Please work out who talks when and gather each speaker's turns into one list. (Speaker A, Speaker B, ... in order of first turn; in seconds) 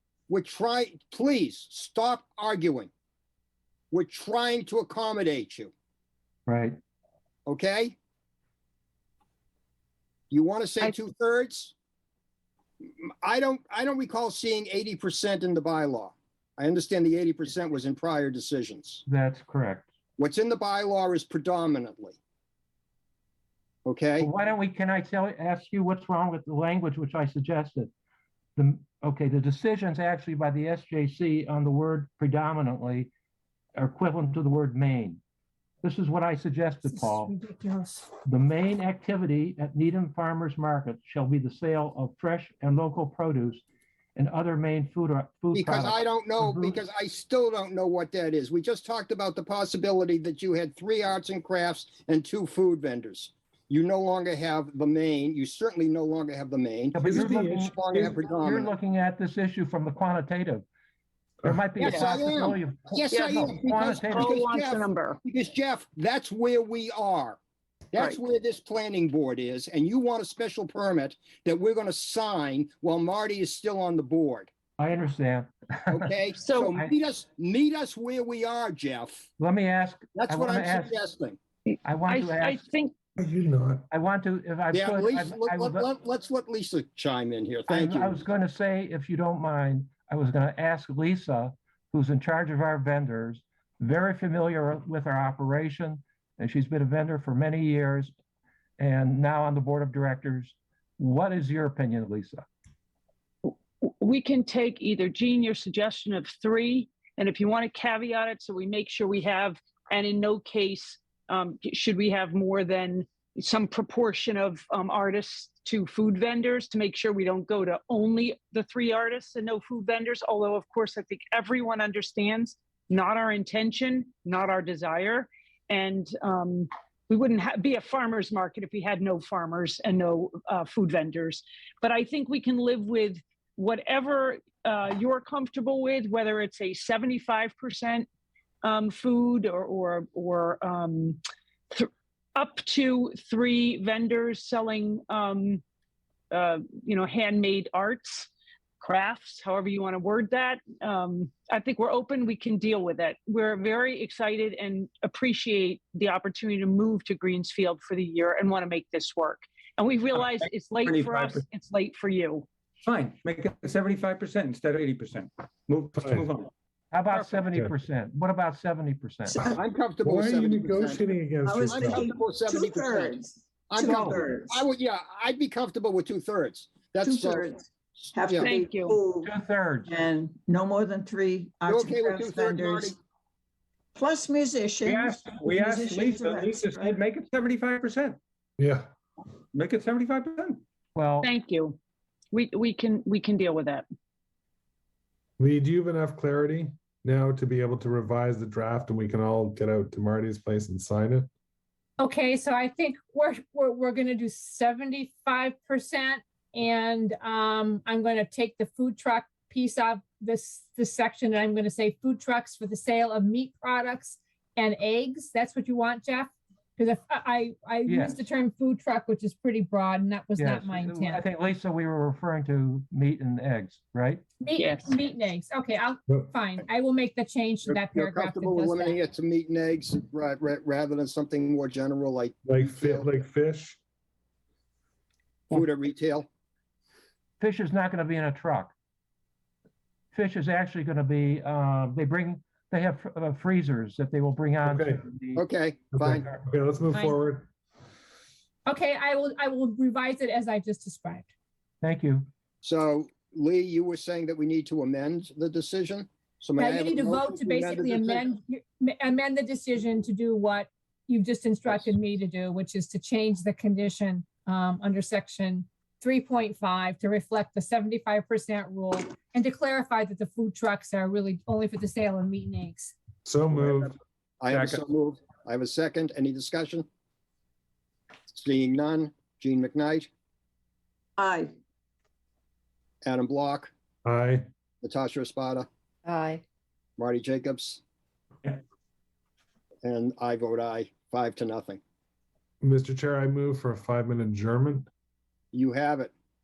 Speaker A: 0.3-2.9, 3.9-5.7, 7.5-8.0, 10.3-11.7, 13.0-19.0, 20.2-22.2, 23.8-24.3, 45.5-58.7, 61.8-67.4, 67.9-74.5, 75.9-79.3, 80.1-81.4, 84.7-88.2, 169.5-171.1, 171.6-177.5, 178.2-178.5, 181.7-182.9, 227.7-233.2, 235.5-236.3, 245.3-246.2, 252.6-258.3, 273.6-276.9, 278.3-280.1, 283.0-283.7, 284.8-285.7, 287.0-287.8, 289.8-291.8, 295.5-296.1
Speaker B: 6.5-6.8, 19.1-19.9, 24.2-27.9, 28.6-33.1, 33.8-35.2, 35.8-37.3, 38.2-43.6, 44.1-46.8, 56.9-60.6, 61.4-64.3, 74.8-76.1, 79.4-81.0, 81.8-82.7, 83.9-85.9, 87.7-98.1, 98.8-102.4, 166.9-169.5, 173.8-174.3, 179.2-180.0, 190.9-191.3, 217.8-218.2, 220.4-224.2, 237.4-238.7, 240.1-245.4, 246.0-246.4, 251.8-252.3
Speaker C: 36.8-38.1, 202.0-221.2, 224.4-229.0, 246.9-247.2, 248.7-251.3, 256.6-272.9
Speaker D: 57.0-58.1, 83.2-83.8, 165.9-166.3, 169.4-172.1, 188.6-188.9, 195.4-201.3, 232.4-233.8, 244.6-245.0, 245.9-247.5, 273.2-273.9, 284.0-284.5, 292.6-294.9
Speaker E: 61.8-62.1, 63.1-65.2, 76.4-76.7, 81.7-82.9, 103.4-138.1, 138.6-141.2, 141.7-145.6, 146.3-162.4, 167.1-167.4, 178.4-179.0, 191.2-191.8, 192.3-193.8, 224.5-225.0
Speaker F: 160.8-161.4, 162.8-166.5, 184.8-188.2, 189.5-190.6
Speaker G: 171.4-174.6, 177.0-182.9, 183.9-187.0, 281.2-281.5, 286.1-286.4